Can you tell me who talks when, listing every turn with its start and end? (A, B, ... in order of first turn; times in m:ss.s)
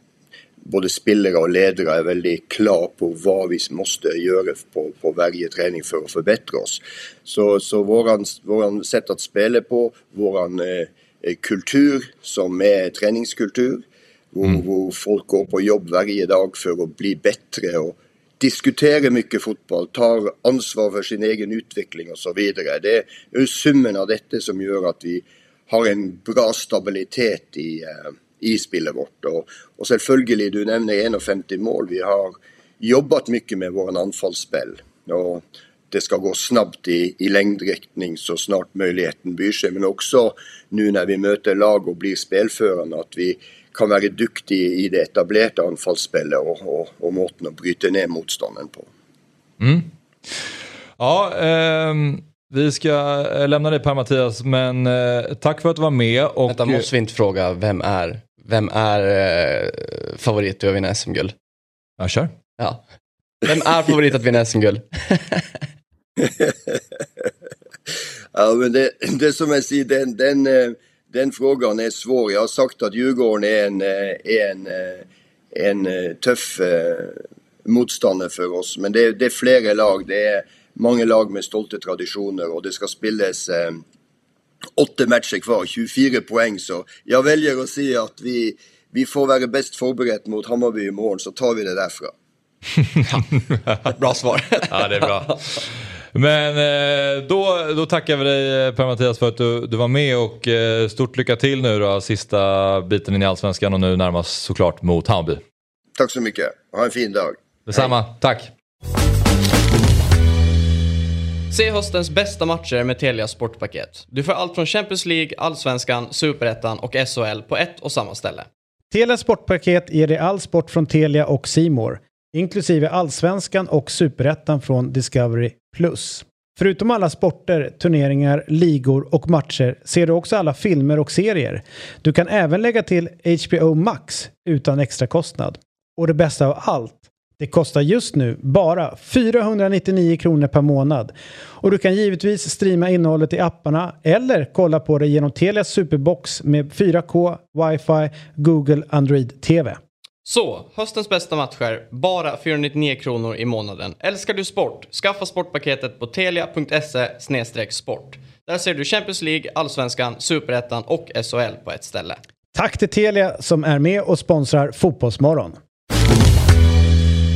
0:00.6-0:48.9 A
0:49.6-0:50.4 B
0:51.0-0:56.8 B
0:56.5-1:01.3 C
1:02.0-1:02.3 B
1:03.4-1:05.6 C
1:06.2-1:06.8 A
1:08.3-1:23.8 A
1:24.8-1:32.1 A
1:33.6-1:33.8 B
1:33.8-1:35.4 C
1:34.7-1:45.4 B
1:46.0-1:47.4 A
1:47.7-1:48.5 B
1:51.5-1:58.5 C
1:58.9-2:29.8 D
2:30.2-2:42.2 C
2:42.5-2:45.6 D